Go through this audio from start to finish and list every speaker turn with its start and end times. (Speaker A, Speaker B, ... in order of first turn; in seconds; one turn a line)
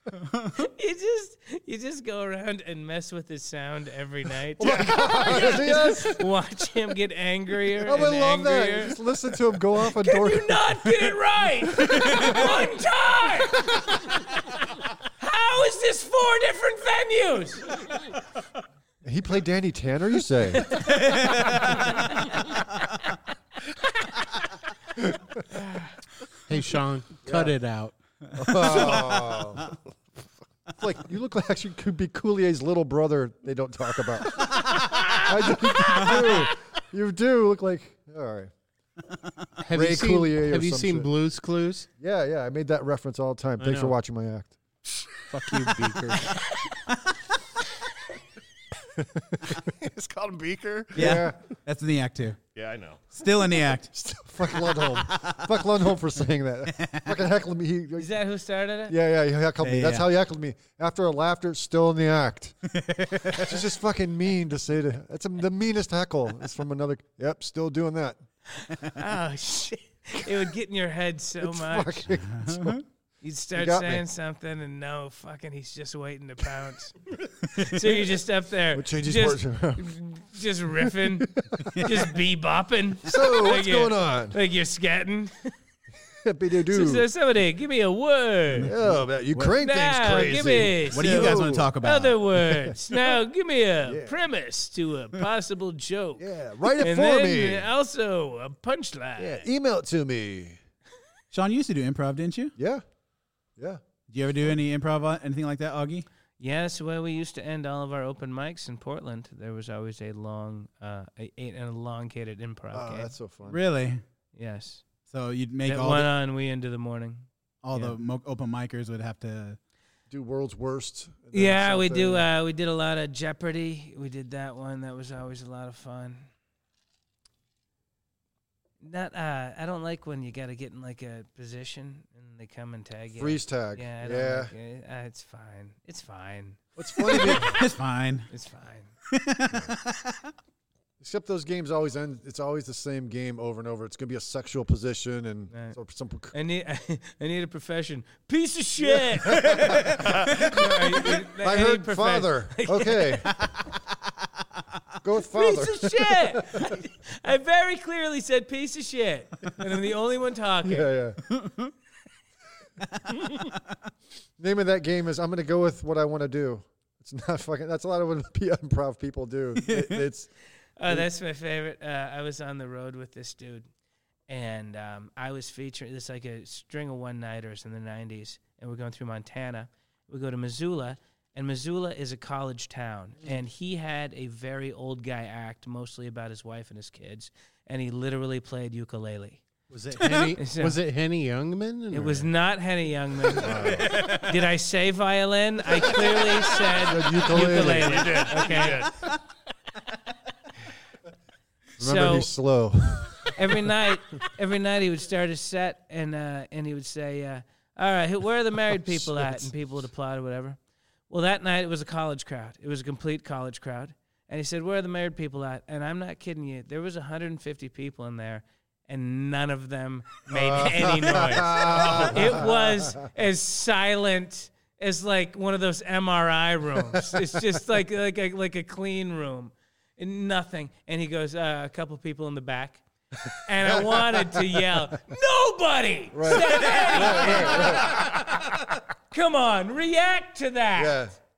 Speaker A: 0.2-0.5
Speaker B: 0.5-9.0
Speaker C: 4.6-6.2
Speaker D: 4.6-4.9
Speaker C: 7.8-10.9
Speaker B: 9.8-14.2
Speaker B: 15.2-17.7
Speaker C: 19.0-20.8
Speaker B: 20.6-22.4
Speaker A: 20.9-21.6
Speaker E: 26.5-27.9
Speaker C: 27.2-27.5
Speaker C: 28.4-29.7
Speaker A: 28.7-29.0
Speaker C: 30.8-38.5
Speaker A: 34.6-35.3
Speaker A: 35.9-36.3
Speaker E: 39.6-41.9
Speaker C: 39.7-41.1
Speaker C: 42.0-44.5
Speaker E: 43.6-44.0
Speaker E: 45.3-46.4
Speaker C: 49.0-49.6
Speaker D: 49.6-51.2
Speaker A: 50.9-52.4
Speaker C: 51.0-51.4
Speaker D: 52.5-53.1
Speaker A: 53.1-53.9
Speaker C: 53.9-58.1
Speaker A: 55.2-55.4
Speaker A: 56.8-57.0
Speaker B: 58.0-59.0
Speaker C: 58.9-62.6
Speaker A: 59.6-60.0
Speaker A: 62.7-63.4
Speaker C: 63.2-68.2
Speaker B: 68.6-72.1
Speaker C: 71.4-72.8
Speaker A: 72.3-72.8
Speaker B: 73.2-85.5
Speaker C: 73.5-74.0
Speaker C: 78.7-79.9
Speaker C: 81.0-82.0
Speaker C: 83.0-84.4
Speaker C: 86.1-87.0
Speaker B: 86.7-88.7
Speaker A: 88.6-89.5
Speaker C: 88.6-91.8
Speaker B: 89.5-99.4
Speaker A: 90.9-92.2
Speaker C: 92.6-93.0
Speaker C: 93.8-94.2
Speaker C: 96.2-97.7
Speaker C: 99.2-100.6
Speaker A: 101.3-102.5
Speaker C: 102.6-102.8
Speaker C: 103.6-103.8
Speaker A: 104.1-106.0
Speaker B: 106.4-113.1
Speaker C: 112.7-113.6
Speaker A: 113.5-114.0
Speaker B: 114.3-114.8
Speaker A: 115.0-116.1
Speaker B: 115.6-118.0
Speaker A: 117.6-119.6
Speaker C: 120.1-122.3
Speaker B: 121.3-126.3
Speaker B: 128.8-137.6
Speaker C: 133.2-134.5
Speaker C: 136.8-137.6
Speaker A: 137.1-138.3
Speaker B: 138.3-138.9
Speaker A: 139.1-140.3
Speaker C: 141.0-146.3
Speaker B: 145.5-145.8
Speaker B: 146.3-153.2
Speaker C: 148.9-149.8
Speaker C: 150.6-153.3
Speaker C: 155.0-156.7
Speaker B: 155.3-160.9
Speaker C: 160.6-161.2
Speaker A: 161.3-161.7
Speaker A: 163.1-163.4
Speaker C: 164.4-170.3
Speaker A: 169.7-170.0
Speaker B: 170.8-173.7
Speaker B: 174.3-189.4
Speaker E: 189.7-192.3
Speaker B: 190.4-190.8
Speaker B: 191.9-198.9
Speaker C: 193.4-193.9
Speaker C: 196.7-198.3
Speaker D: 197.7-199.0
Speaker B: 201.8-202.3
Speaker C: 201.8-203.4
Speaker B: 203.3-238.3
Speaker C: 208.8-209.4
Speaker C: 220.3-223.1
Speaker C: 233.6-234.6
Speaker C: 236.1-238.6
Speaker B: 239.1-241.1
Speaker C: 240.8-241.1